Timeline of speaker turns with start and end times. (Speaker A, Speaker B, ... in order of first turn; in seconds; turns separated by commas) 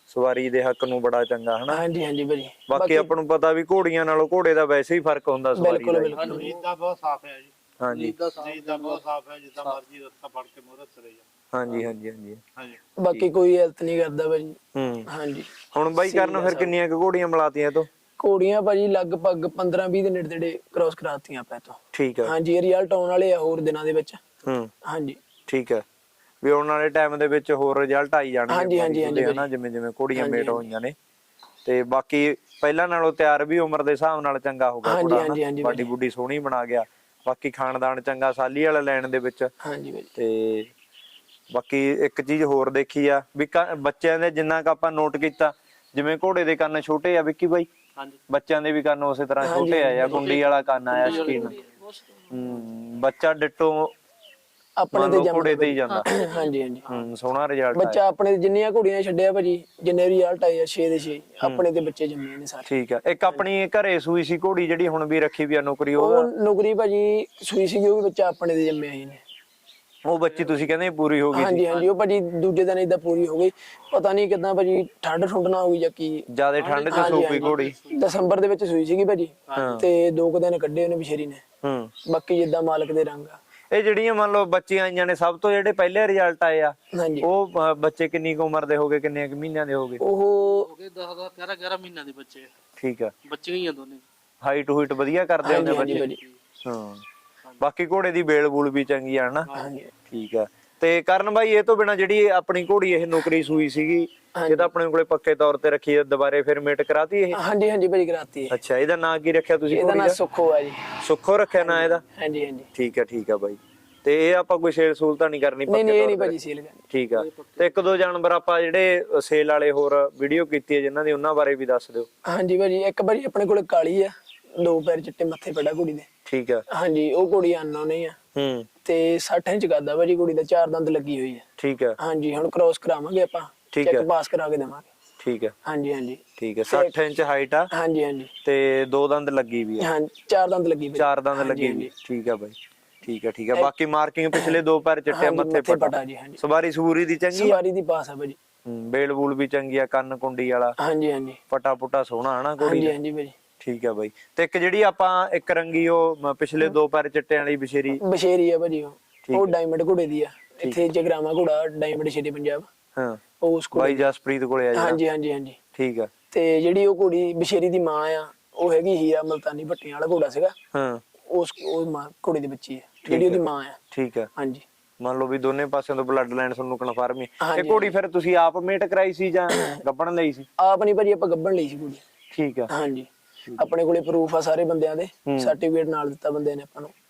Speaker A: 0.1-1.8, Speaker B: 1.7-3.1, Speaker A: 2.7-6.2, Speaker B: 5.5-6.5, Speaker C: 6.1-6.6, Speaker D: 6.2-7.5, Speaker A: 7.8-8.1, Speaker C: 7.9-9.0, Speaker D: 8.4-11.9, Speaker A: 11.5-12.4, Speaker B: 13.0-16.7, Speaker A: 14.7-15.1, Speaker A: 15.7-17.9, Speaker B: 18.2-24.2, Speaker A: 21.9-22.3, Speaker A: 24.4-24.7, Speaker B: 24.8-25.2, Speaker A: 25.5-25.8, Speaker A: 26.4-30.9, Speaker B: 28.5-29.5, Speaker B: 30.1-30.6, Speaker A: 31.6-39.5, Speaker B: 34.8-35.9, Speaker B: 39.6-40.1, Speaker A: 40.1-40.7, Speaker A: 41.5-47.7, Speaker C: 48.0-48.2, Speaker A: 48.3-51.6, Speaker B: 49.4-50.4, Speaker C: 50.0-52.6, Speaker B: 51.0-51.5, Speaker A: 52.3-53.9, Speaker B: 54.8-56.8, Speaker A: 54.9-56.0, Speaker C: 55.9-57.1, Speaker A: 56.9-58.0, Speaker B: 57.7-62.7, Speaker A: 62.7-66.3, Speaker B: 66.0-69.2, Speaker A: 70.0-71.6, Speaker C: 70.1-70.8, Speaker B: 71.3-76.2, Speaker C: 71.6-71.9, Speaker A: 76.3-77.7, Speaker C: 76.6-78.3, Speaker B: 76.9-81.4, Speaker C: 79.5-79.8, Speaker A: 79.6-79.8, Speaker A: 81.6-81.9, Speaker B: 82.0-83.4, Speaker A: 83.7-90.0, Speaker B: 86.9-87.3, Speaker B: 90.0-90.7, Speaker C: 90.3-92.5, Speaker A: 92.8-93.1, Speaker C: 93.2-94.0, Speaker A: 94.4-96.1, Speaker B: 95.4-96.2, Speaker C: 95.6-96.4, Speaker A: 96.6-97.0, Speaker A: 97.6-99.5, Speaker B: 99.5-99.9, Speaker A: 100.1-107.4, Speaker B: 104.3-104.7, Speaker B: 107.3-108.5, Speaker A: 108.5-110.2, Speaker B: 109.7-110.8, Speaker A: 111.0-112.0, Speaker B: 111.6-112.7, Speaker A: 112.7-116.3, Speaker B: 115.7-116.8, Speaker A: 116.9-122.1, Speaker C: 117.1-117.9, Speaker B: 122.3-126.1, Speaker A: 126.2-126.6, Speaker B: 126.7-128.2, Speaker A: 128.3-128.7, Speaker B: 128.8-131.4, Speaker A: 131.6-132.0, Speaker B: 132.0-134.9, Speaker A: 133.7-134.1, Speaker A: 135.2-135.5, Speaker B: 135.6-136.9, Speaker A: 136.4-137.7, Speaker B: 137.7-138.3, Speaker A: 138.4-139.9, Speaker B: 139.8-141.9, Speaker A: 140.9-147.6, Speaker B: 145.1-146.4, Speaker B: 147.3-148.4, Speaker A: 148.7-150.8, Speaker B: 150.8-151.4, Speaker A: 151.5-152.9, Speaker B: 152.6-153.3, Speaker A: 153.6-158.0, Speaker B: 158.0-162.7, Speaker A: 159.3-159.5, Speaker B: 163.4-164.1, Speaker A: 163.7-165.0, Speaker B: 164.7-165.6, Speaker A: 165.7-166.1, Speaker B: 166.3-170.5, Speaker A: 170.7-171.0, Speaker B: 171.3-173.8, Speaker A: 173.0-174.3, Speaker B: 174.4-174.6, Speaker A: 175.0-180.5, Speaker B: 177.4-177.9, Speaker B: 180.6-182.0, Speaker A: 182.3-182.7, Speaker B: 182.7-186.9, Speaker A: 185.2-185.5